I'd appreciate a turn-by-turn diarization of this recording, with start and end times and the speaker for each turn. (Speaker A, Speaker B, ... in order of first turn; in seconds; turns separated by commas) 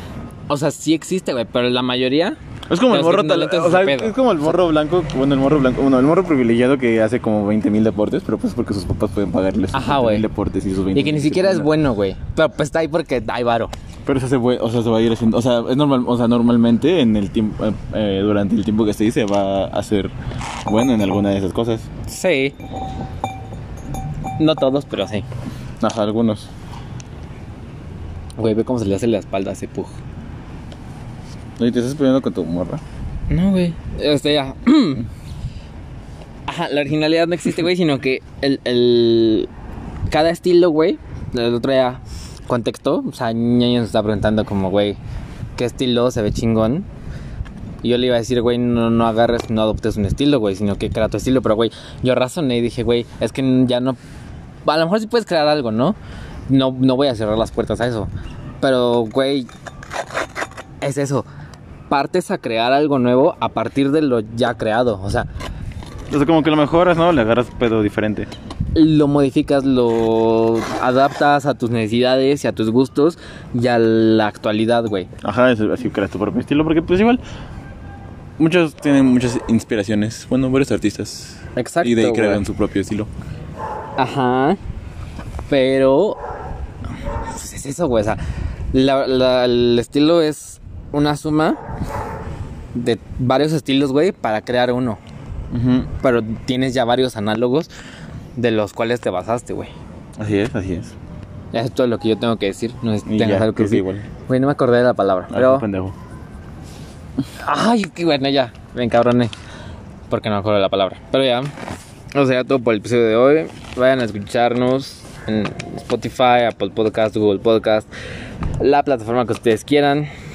Speaker A: 0.5-4.2, Speaker B: 2.7-11.7, Speaker A: 9.7-10.3, Speaker A: 10.9-13.7, Speaker B: 14.1-20.1, Speaker B: 20.6-21.9, Speaker A: 22.1-22.5, Speaker A: 24.4-25.2, Speaker B: 25.8-26.5, Speaker A: 28.4-30.0, Speaker B: 31.6-32.8, Speaker A: 33.3-35.0, Speaker A: 36.5-39.5, Speaker A: 40.1-45.0, Speaker A: 45.6-46.9, Speaker A: 47.8-54.0, Speaker A: 54.6-56.0, Speaker A: 56.5-58.1, Speaker A: 58.6-59.5, Speaker A: 60.8-61.2, Speaker A: 61.9-65.3, Speaker B: 66.1-68.3, Speaker A: 68.8-75.1, Speaker B: 75.2-77.2, Speaker B: 78.4-83.1, Speaker A: 81.5-82.4, Speaker A: 84.0-84.6, Speaker A: 85.5-86.2, Speaker A: 87.3-88.2, Speaker A: 88.7-91.6, Speaker A: 92.7-95.0, Speaker B: 95.5-95.9, Speaker A: 96.0-97.7, Speaker A: 98.4-99.7, Speaker B: 100.2-100.9, Speaker A: 101.5-105.6, Speaker B: 103.0-104.1, Speaker B: 105.3-106.0, Speaker A: 107.4-109.3, Speaker A: 110.1-111.5, Speaker A: 112.1-117.9, Speaker A: 118.6-120.1